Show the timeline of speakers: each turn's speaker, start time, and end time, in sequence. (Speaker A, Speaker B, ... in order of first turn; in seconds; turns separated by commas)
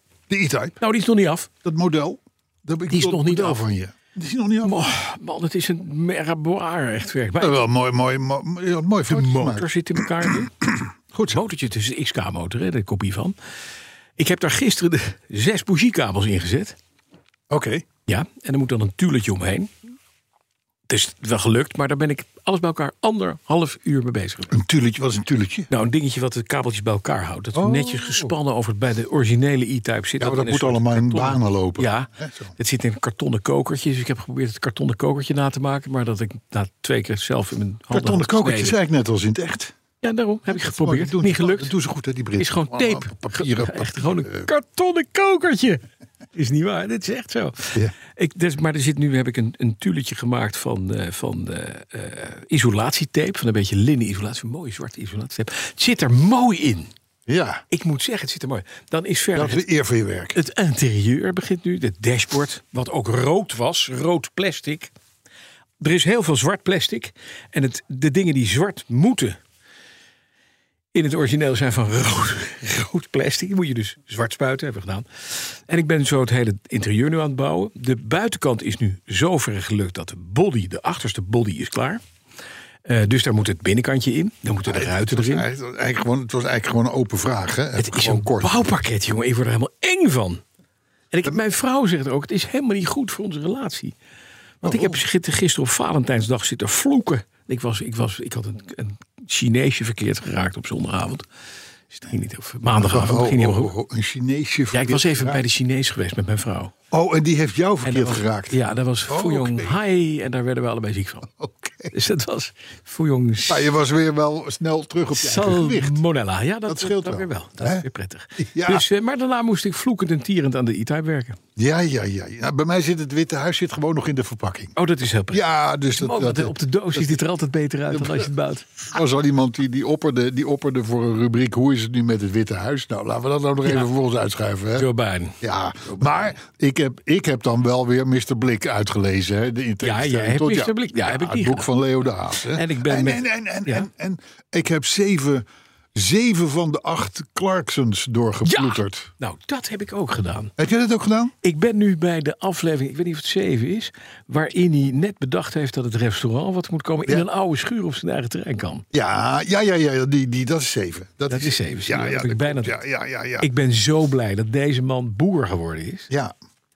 Speaker A: 0.3-0.8, Speaker B: 0.8-1.5, Speaker A: 1.6-4.9, Speaker B: 2.9-3.6, Speaker B: 4.6-7.6, Speaker A: 7.4-11.4, Speaker B: 9.1-10.5, Speaker B: 11.3-13.3, Speaker B: 14.2-16.8, Speaker A: 17.5-17.8, Speaker B: 18.1-19.7, Speaker B: 20.9-24.5, Speaker A: 24.5-25.7, Speaker B: 25.7-38.8, Speaker A: 27.5-28.3, Speaker A: 30.2-32.5, Speaker A: 37.9-39.7, Speaker B: 40.0-41.7, Speaker A: 40.5-44.5, Speaker B: 42.4-45.8, Speaker B: 46.3-56.9, Speaker A: 57.3-57.6, Speaker B: 57.7-59.6, Speaker A: 59.3-60.4, Speaker B: 60.3-64.9, Speaker B: 65.8-69.4, Speaker B: 70.9-82.0, Speaker B: 82.8-85.5, Speaker A: 84.6-88.7, Speaker B: 87.8-90.4, Speaker B: 91.1-93.9, Speaker A: 94.6-95.0, Speaker B: 94.6-101.2, Speaker B: 101.9-103.7, Speaker A: 102.8-105.4, Speaker B: 104.7-106.7, Speaker A: 106.9-109.8, Speaker B: 107.8-111.3, Speaker A: 111.4-111.9, Speaker B: 111.9-113.7, Speaker A: 113.5-116.0, Speaker B: 115.1-121.4, Speaker A: 116.7-117.8, Speaker A: 118.4-118.8, Speaker A: 121.6-124.7, Speaker B: 124.8-125.4, Speaker A: 125.3-127.2, Speaker B: 125.9-128.7, Speaker A: 127.9-128.3, Speaker A: 128.9-134.9, Speaker B: 134.8-136.1, Speaker A: 135.4-149.1, Speaker B: 139.8-141.7, Speaker B: 142.4-143.8, Speaker B: 148.4-150.5, Speaker A: 150.6-151.3, Speaker B: 151.4-158.8, Speaker A: 158.9-163.5, Speaker B: 161.3-162.8, Speaker B: 163.4-166.1